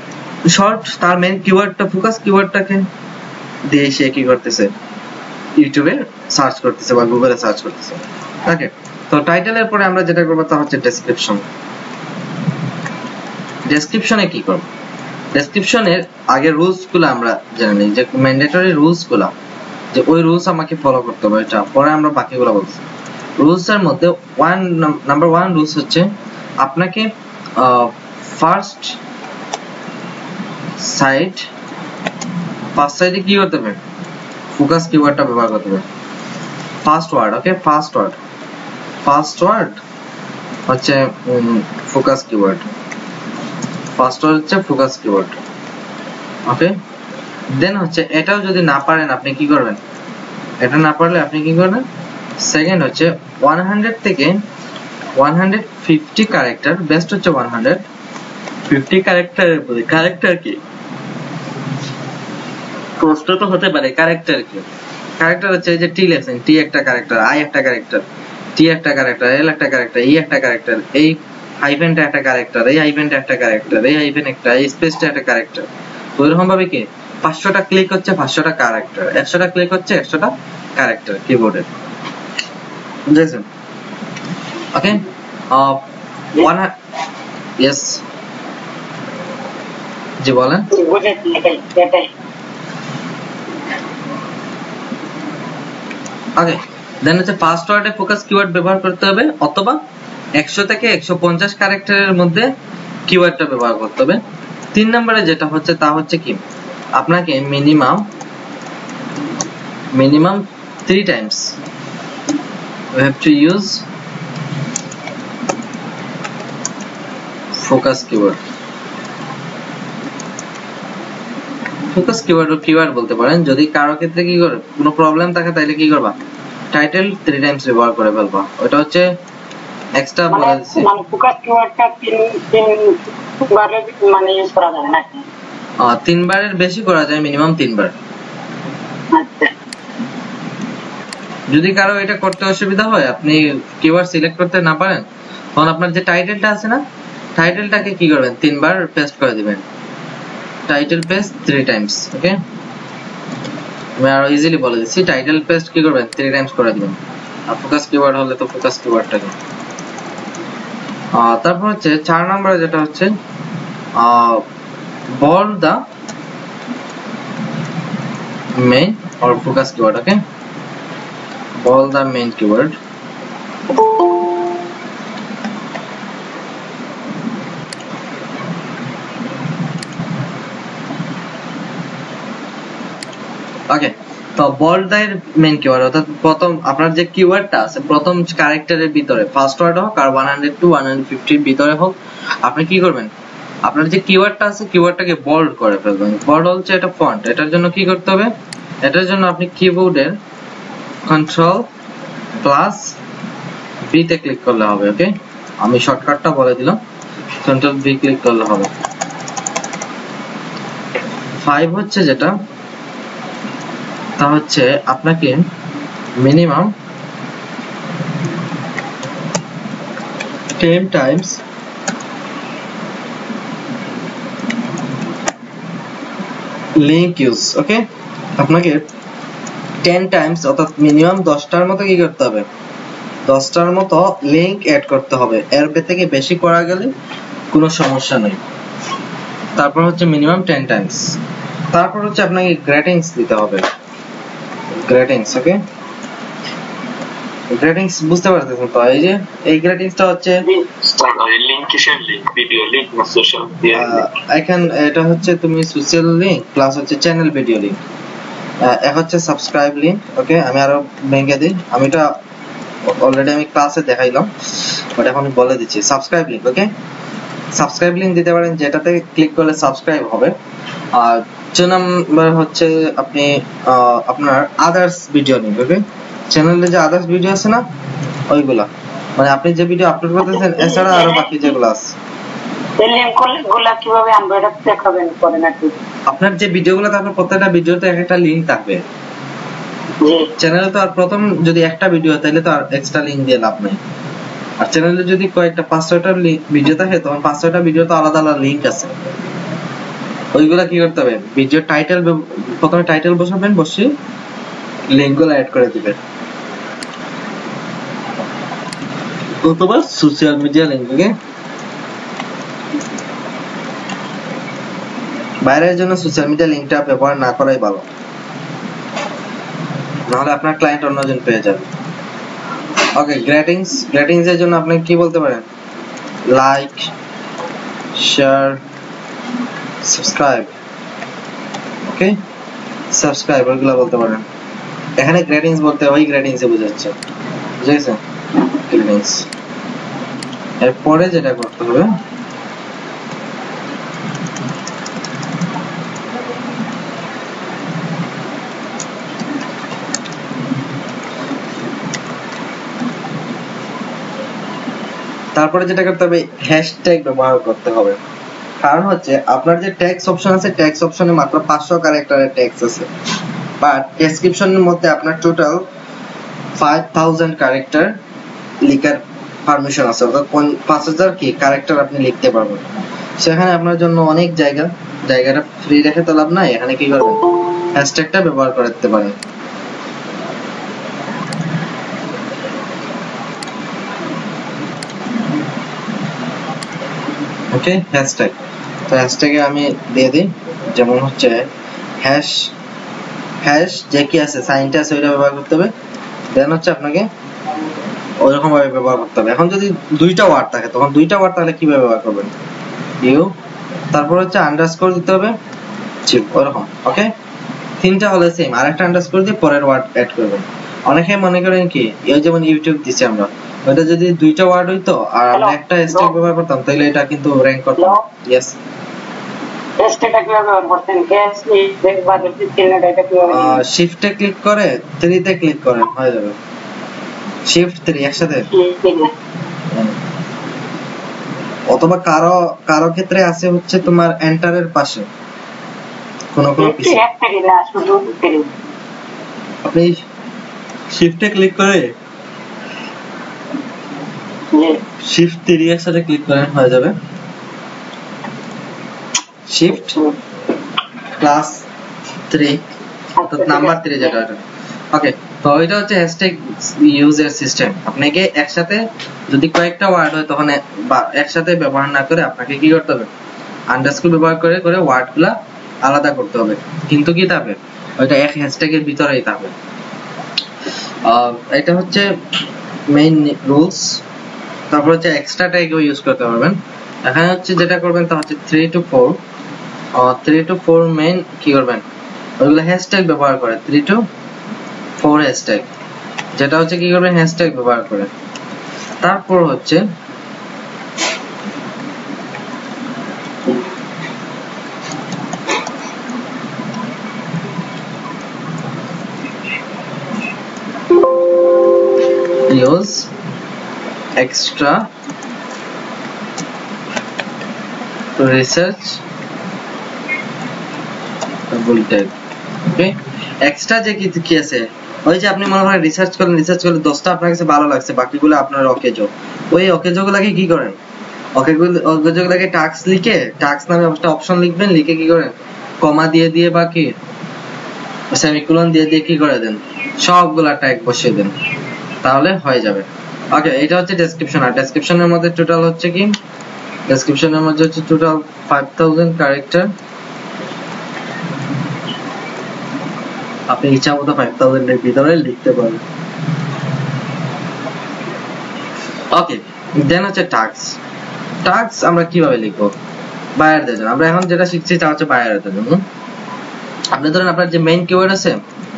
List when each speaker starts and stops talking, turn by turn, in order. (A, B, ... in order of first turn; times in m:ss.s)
0:00.5-0:02.9 A
0:03.7-0:04.7 A
0:05.6-0:11.4 A
0:13.7-0:14.7 A
0:15.3-0:19.3 A
0:19.9-0:22.8 A
0:23.4-0:26.1 A
0:26.6-0:29.0 A
0:30.8-0:31.5 A
0:32.8-0:33.8 A
0:34.6-0:35.8 A
0:36.8-0:38.2 A
0:39.0-0:39.8 A
0:40.7-0:42.7 A
0:44.0-0:45.4 A
0:46.5-0:46.8 A
0:47.5-0:49.8 A
0:50.6-0:51.8 A
0:52.4-0:54.4 A
0:55.2-0:57.8 A
0:58.7-1:00.6 A
1:03.0-1:04.7 A
1:05.2-1:08.0 A
1:08.6-1:21.7 A
1:23.1-1:23.5 A
1:24.7-1:26.7 A
1:27.6-1:28.0 A
1:30.2-1:30.7 A
1:30.7-1:32.1 B
1:36.4-1:39.8 A
1:40.4-1:42.5 A
1:43.1-1:44.2 A
1:44.7-1:46.4 A
1:47.0-1:48.1 A
1:50.0-1:51.6 A
1:52.9-1:53.8 A
1:57.6-1:58.4 A
2:01.9-2:06.2 A
2:06.7-2:09.1 A
2:10.0-2:10.9 A
2:10.3-2:15.1 B
2:15.8-2:17.9 A
2:19.1-2:19.5 B
2:21.5-2:26.8 A
2:27.4-2:29.6 A
2:30.7-2:32.4 A
2:34.0-2:39.4 A
2:41.1-2:43.1 A
2:44.0-2:44.4 A
2:45.2-2:45.8 A
2:48.6-2:50.2 A
2:51.6-2:52.8 A
3:03.7-3:13.1 A
3:13.7-3:18.3 A
3:18.8-3:20.2 A
3:21.1-3:21.7 A
3:22.4-3:22.9 A
3:23.9-3:26.8 A
3:27.4-3:28.7 A
3:31.4-3:32.4 A
3:34.2-3:35.4 A
3:36.2-3:36.7 A
3:40.6-3:41.4 A
3:46.8-3:47.9 A
3:48.4-3:48.9 A
3:49.8-3:52.5 A
3:53.3-3:56.9 A
3:57.5-3:58.4 A
3:59.6-4:01.2 A
4:01.7-4:03.6 A
4:04.8-4:05.6 A
4:07.5-4:10.4 A
4:10.8-4:14.1 C
4:13.7-4:17.8 A
4:18.6-4:22.1 A
4:22.9-4:24.3 A
4:25.0-4:26.7 A
4:27.6-4:30.4 A
4:30.9-4:37.6 A
4:38.3-4:41.9 A
4:42.8-4:45.8 B
4:46.1-4:48.8 A
4:50.0-4:50.3 B
4:50.4-4:53.8 A
4:54.6-4:58.9 A
5:00.3-5:03.9 A
5:04.9-5:06.0 A
5:09.4-5:11.2 A
5:15.4-5:17.9 A
5:20.1-5:21.7 A
5:23.0-5:25.5 A
5:26.3-5:26.9 A
5:28.0-5:28.6 A
5:29.8-5:30.5 A
5:31.9-5:32.2 A
5:32.9-5:34.2 A
5:35.0-5:37.0 A
5:37.6-5:39.3 A
5:40.6-5:41.9 A
5:55.4-5:58.0 A
5:58.6-6:02.9 A
6:03.6-6:05.7 A
6:06.6-6:08.0 A
6:08.6-6:19.2 A
6:27.5-6:28.4 A
6:28.9-6:31.5 A
6:32.0-6:32.5 A
6:33.4-6:35.7 A
6:36.3-6:37.1 A
6:38.2-6:42.3 A
6:43.0-6:43.3 A
6:43.9-6:45.4 A
6:46.1-6:47.1 A
6:47.8-6:58.6 A
6:55.3-6:56.1 B
6:57.8-6:58.0 B
6:59.8-7:03.6 B
7:03.3-7:06.4 A
7:07.5-7:08.5 A
7:08.5-7:09.1 B
7:11.7-7:15.1 A
7:16.3-7:17.0 A
7:16.6-7:18.5 B
7:19.6-7:20.0 A
7:20.9-7:21.9 A
7:24.5-7:24.8 B
7:25.0-7:27.0 A
7:29.5-7:30.0 A
7:31.2-7:31.6 A
7:32.3-7:32.6 A
7:33.2-7:34.1 B
7:33.2-7:43.1 A
7:43.7-7:49.5 A
7:51.0-7:52.1 A
7:52.9-7:54.0 A
7:54.7-7:59.2 A
8:00.0-8:01.8 A
8:02.4-8:04.0 A
8:05.0-8:05.7 A
8:06.4-8:08.1 A
8:09.0-8:09.8 A
8:22.5-8:23.1 A
8:24.2-8:24.9 A
8:28.2-8:29.0 A
8:31.5-8:40.8 A
8:41.4-8:46.9 A
8:48.1-8:51.3 A
8:52.0-8:56.2 A
8:56.9-8:59.7 A
9:03.5-9:05.8 A
9:09.1-9:10.8 A
9:11.4-9:12.8 A
9:13.4-9:15.8 A
9:16.9-9:18.4 A